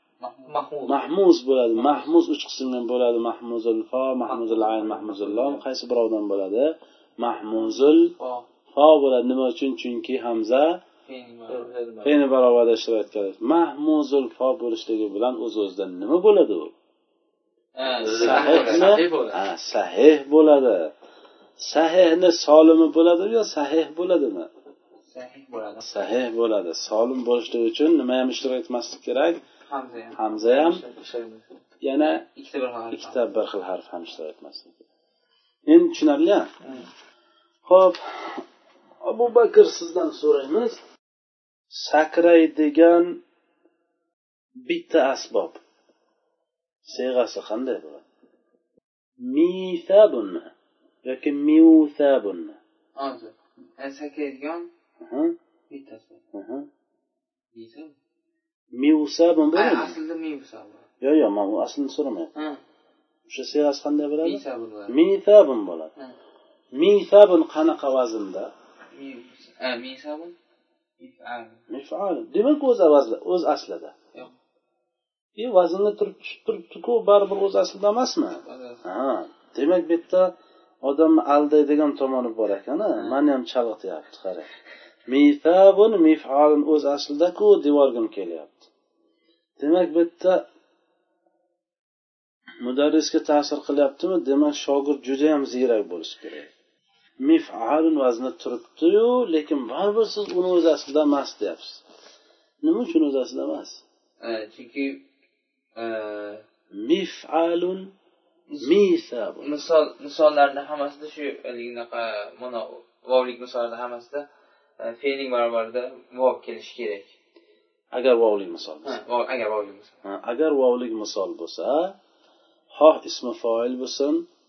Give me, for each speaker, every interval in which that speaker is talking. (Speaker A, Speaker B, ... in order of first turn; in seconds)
Speaker A: 0.2-0.6, 11.1-11.7, 17.8-19.0, 25.1-25.9, 29.7-30.2, 32.4-33.4, 53.0-54.7, 55.7-56.2, 57.5-58.0, 59.5-60.9, 62.4-62.6, 64.2-65.0, 68.9-70.3, 71.0-71.6, 78.4-78.8, 104.2-105.1, 105.8-106.4, 108.5-108.8, 109.4-114.3, 114.8-117.1, 118.8-120.0
Speaker B: 0.5-1.1, 4.3-5.6, 11.5-12.2, 18.0-19.4, 30.4-31.5
Speaker C: 0.9-8.2, 8.7-10.8, 12.0-16.7, 18.0-20.9, 21.6-24.5, 25.8-29.4, 30.1-30.8, 31.8-32.3, 32.9-34.7, 35.7-36.5, 37.6-38.4, 39.0-40.8, 41.7-43.2, 44.6-45.6, 46.9-48.0, 49.2-50.5, 51.0-52.6, 55.0-55.4, 56.3-56.7, 58.7-60.0, 61.0-62.3, 63.3-65.9, 66.8-68.5, 71.7-74.0, 75.4-84.5, 85.1-88.7, 89.6-90.5, 92.6-96.5, 97.2-101.8, 102.6-103.8, 106.7-107.9, 108.6-109.6, 117.9-119.0, 120.0-122.0, 122.7-124.3